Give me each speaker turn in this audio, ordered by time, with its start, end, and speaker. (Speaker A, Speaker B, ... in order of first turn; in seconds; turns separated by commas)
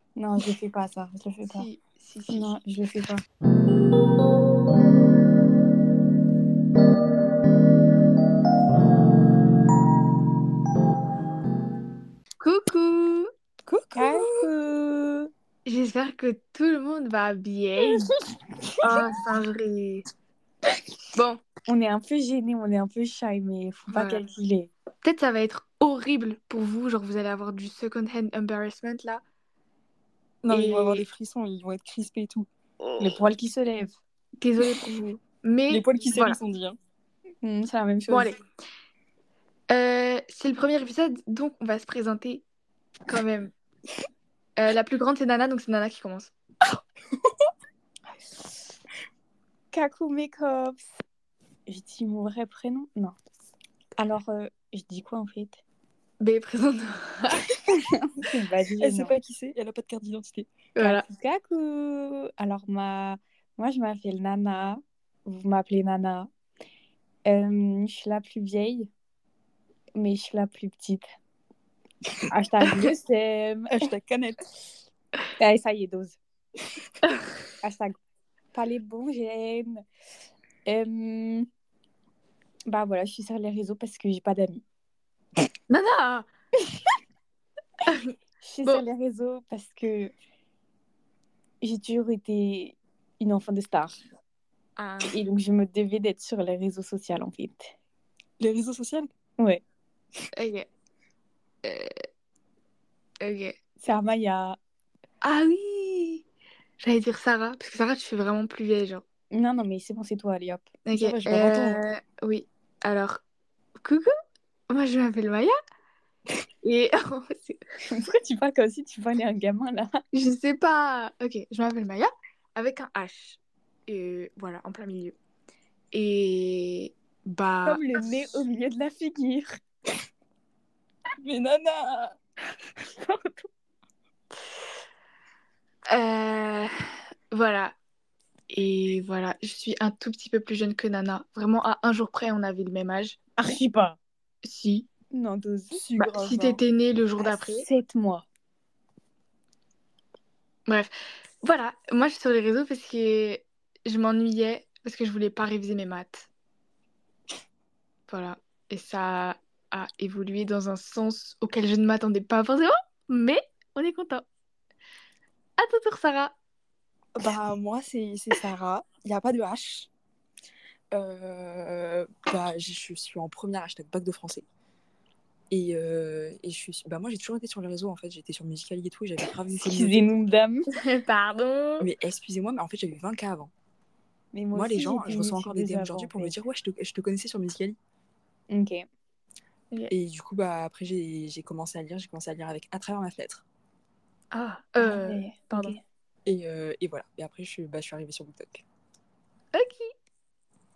Speaker A: 0.2-1.7, Speaker B: 1.5-2.6, Speaker A: 2.3-3.2, Speaker B: 12.4-13.3, Speaker C: 13.7-14.5, Speaker A: 13.9-15.3, Speaker B: 15.7-18.1, Speaker B: 18.8-20.1, Speaker B: 21.2-21.4, Speaker A: 21.7-24.7, Speaker B: 23.9-24.3, Speaker B: 25.0-29.2, Speaker C: 30.4-32.5, Speaker B: 30.5-31.1, Speaker A: 33.0-33.9, Speaker B: 34.4-36.4, Speaker C: 35.7-36.8, Speaker A: 37.4-38.3, Speaker B: 38.1-38.4, Speaker B: 39.7-42.4, Speaker B: 43.1-43.5, Speaker B: 44.6-46.3, Speaker A: 49.7-50.9, Speaker A: 51.7-53.1, Speaker A: 54.0-55.6, Speaker B: 56.2-57.5, Speaker A: 57.7-59.1, Speaker C: 58.8-60.5, Speaker B: 60.8-61.0, Speaker A: 60.8-66.3, Speaker A: 67.3-68.9, Speaker A: 70.0-71.0, Speaker A: 72.3-73.7, Speaker C: 73.7-74.4, Speaker A: 75.4-76.2, Speaker A: 77.6-78.0, Speaker A: 78.5-79.8, Speaker A: 80.7-81.5, Speaker A: 82.7-84.6, Speaker B: 85.7-86.3, Speaker B: 87.9-88.1, Speaker A: 88.5-90.1, Speaker A: 91.6-94.0, Speaker B: 94.8-95.2, Speaker A: 95.1-97.7, Speaker C: 98.4-99.1, Speaker B: 100.3-100.7, Speaker B: 101.6-102.0, Speaker B: 103.2-103.6, Speaker A: 103.8-104.6, Speaker B: 105.2-106.2, Speaker B: 106.8-109.0, Speaker A: 109.3-111.8, Speaker B: 110.8-113.2, Speaker B: 113.8-114.1, Speaker B: 114.7-115.6, Speaker B: 116.6-117.6, Speaker A: 117.9-120.0, Speaker B: 120.1-125.2, Speaker B: 125.9-128.2, Speaker A: 127.7-129.6, Speaker C: 131.2-132.2, Speaker B: 135.9-136.7, Speaker B: 137.3-137.8, Speaker B: 138.5-143.2, Speaker A: 143.4-144.0, Speaker B: 144.4-144.9, Speaker A: 145.1-145.9, Speaker C: 145.7-146.6, Speaker B: 146.0-147.7, Speaker A: 147.2-148.3, Speaker B: 150.7-156.3, Speaker B: 158.1-164.2, Speaker B: 165.6-166.3, Speaker C: 167.2-169.9, Speaker C: 170.9-174.4, Speaker C: 175.5-180.1, Speaker A: 179.6-180.7, Speaker B: 180.8-181.9, Speaker C: 181.8-183.5, Speaker A: 184.3-186.4, Speaker C: 184.5-187.8, Speaker A: 188.5-188.8, Speaker C: 189.9-193.4, Speaker B: 194.3-195.8, Speaker A: 194.8-195.8, Speaker C: 196.2-198.6, Speaker B: 199.5-199.9